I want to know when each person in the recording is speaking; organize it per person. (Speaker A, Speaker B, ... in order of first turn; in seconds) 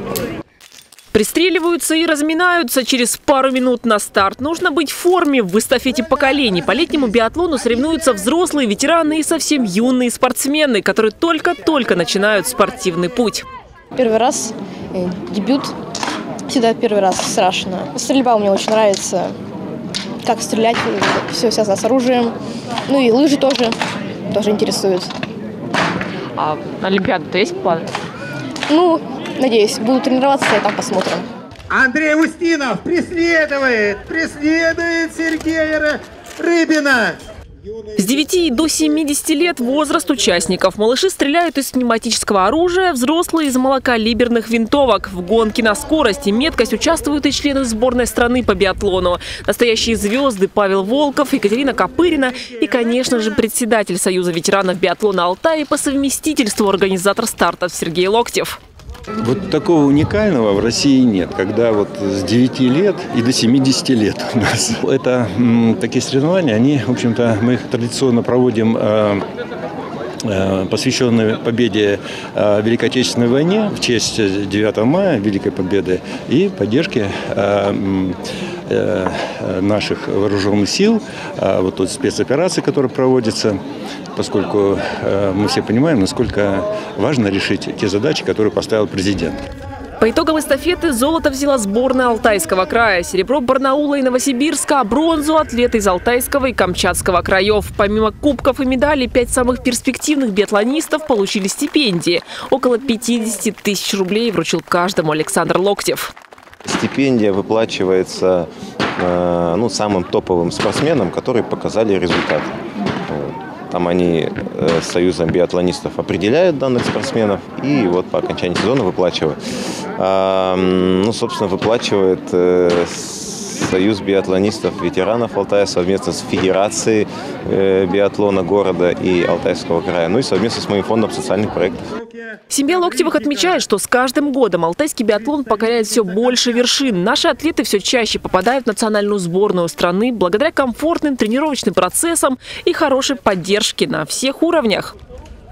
Speaker A: 1.1-13.4, 26.3-27.9, 37.9-58.6, 90.0-106.1, 132.5-144.9
Speaker B: 13.9-15.7, 16.5-19.3, 20.2-22.3, 22.9-23.7, 24.3-25.1, 28.7-31.2
Speaker C: 31.7-37.2
Speaker D: 59.2-69.2, 70.2-83.6, 84.2-89.4
Speaker E: 106.6-112.5, 113.0-119.4, 120.0-131.9